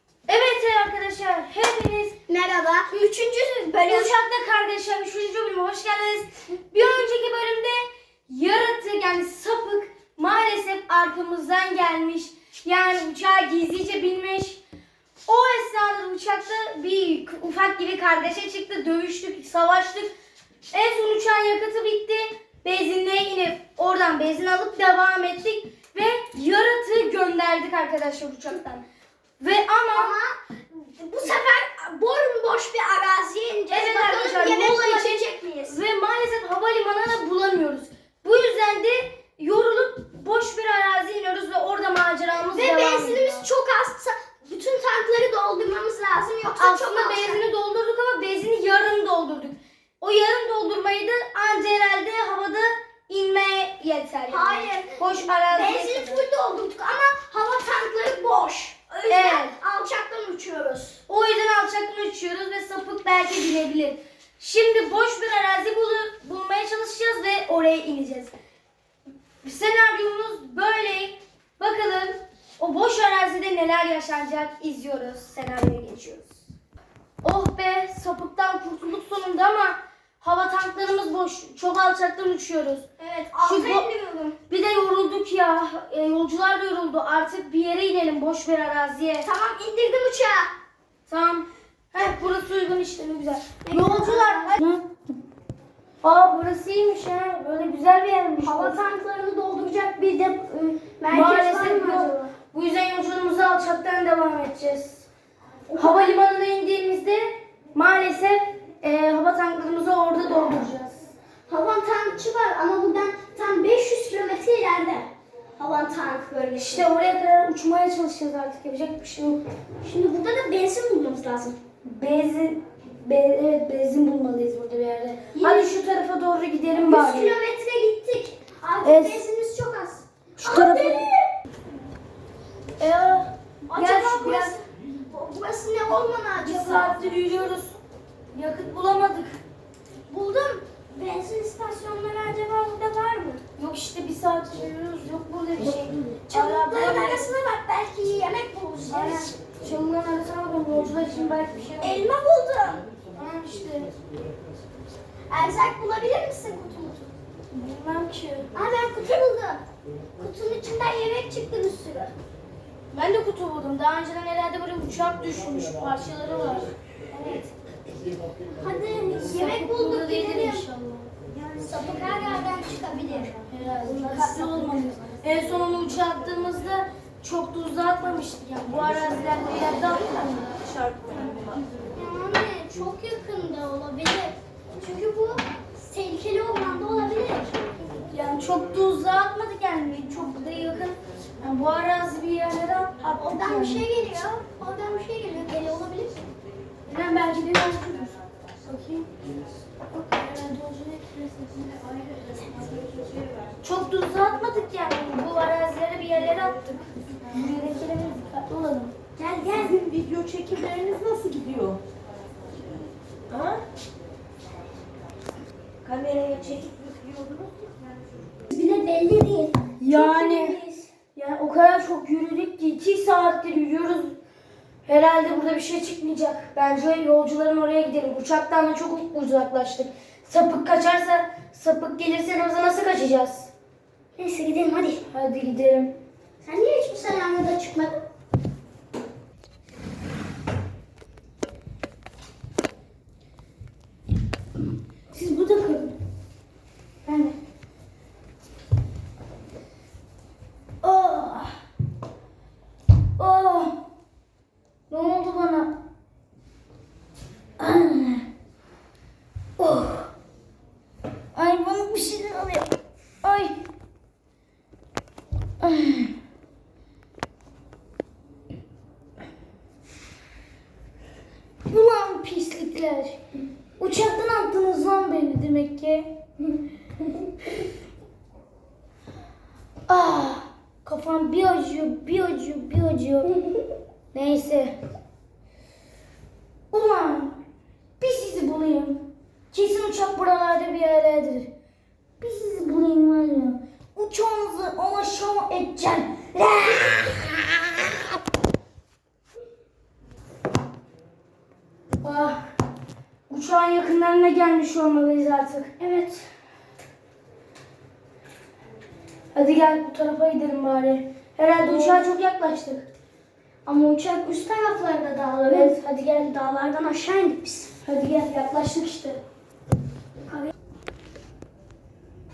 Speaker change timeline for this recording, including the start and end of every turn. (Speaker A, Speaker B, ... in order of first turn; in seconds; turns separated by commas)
Speaker A: 0.3-2.1, Speaker B: 2.3-4.1, Speaker A: 3.8-14.6, Speaker A: 15.3-20.1, Speaker A: 20.7-28.8, Speaker A: 29.4-30.1, Speaker B: 29.9-35.8, Speaker A: 33.7-43.5, Speaker B: 42.5-47.4, Speaker A: 46.5-56.2, Speaker B: 54.3-61.0, Speaker A: 59.1-59.5, Speaker A: 61.1-68.3, Speaker A: 69.4-76.3, Speaker A: 77.2-82.8, Speaker B: 83.0-84.3, Speaker A: 83.4-83.9, Speaker A: 84.5-89.3, Speaker B: 89.2-90.5, Speaker A: 91.1-94.9, Speaker B: 93.6-94.6, Speaker A: 96.0-98.8, Speaker B: 98.4-102.1, Speaker A: 101.1-105.1, Speaker B: 105.7-106.1, Speaker A: 105.8-111.1, Speaker B: 111.5-116.9, Speaker A: 116.5-119.4, Speaker B: 119.8-121.6, Speaker A: 121.8-127.4, Speaker B: 125.3-125.8, Speaker B: 126.7-131.3, Speaker A: 128.8-129.2, Speaker A: 130.4-131.1, Speaker A: 132.8-134.6, Speaker B: 133.7-137.3, Speaker A: 136.4-137.8, Speaker A: 138.3-139.4, Speaker B: 140.1-143.4, Speaker A: 143.6-147.3, Speaker B: 146.3-149.3, Speaker A: 148.9-152.1, Speaker B: 151.8-152.8, Speaker A: 153.1-153.9, Speaker B: 155.3-157.1, Speaker A: 157.5-158.5, Speaker B: 158.5-159.6, Speaker B: 160.2-162.1, Speaker A: 162.9-166.7, Speaker B: 167.1-167.4, Speaker B: 168.5-170.7, Speaker A: 169.2-171.1, Speaker B: 171.5-173.3, Speaker A: 173.5-180.7, Speaker B: 173.9-174.9, Speaker C: 180.8-181.3, Speaker B: 181.9-187.6, Speaker A: 188.1-193.8, Speaker B: 193.2-196.2, Speaker A: 196.9-199.1, Speaker A: 199.9-201.6, Speaker A: 203.6-208.9, Speaker B: 209.2-209.9, Speaker C: 209.8-211.8, Speaker C: 213.3-213.6, Speaker A: 215.8-216.7, Speaker C: 215.9-217.5, Speaker B: 218.5-220.9, Speaker A: 219.8-220.6, Speaker A: 221.1-224.2, Speaker A: 224.8-233.5, Speaker B: 234.2-235.0, Speaker A: 235.1-235.9, Speaker B: 236.4-238.0, Speaker A: 245.1-245.9, Speaker A: 247.0-247.4, Speaker A: 250.8-251.6, Speaker A: 253.2-253.8, Speaker A: 254.9-255.8, Speaker A: 257.6-258.3, Speaker A: 259.6-260.1, Speaker A: 261.3-262.7, Speaker A: 263.2-263.6, Speaker A: 265.6-266.1, Speaker A: 271.7-273.2, Speaker A: 273.8-276.1, Speaker A: 279.9-283.3, Speaker A: 284.1-284.8, Speaker A: 286.7-287.4, Speaker A: 288.0-291.5, Speaker A: 292.2-297.2, Speaker A: 302.0-302.4, Speaker A: 303.3-305.7, Speaker B: 305.8-306.3, Speaker A: 309.3-312.9, Speaker B: 311.6-312.0, Speaker B: 313.6-317.7, Speaker A: 315.5-316.1, Speaker A: 317.8-319.2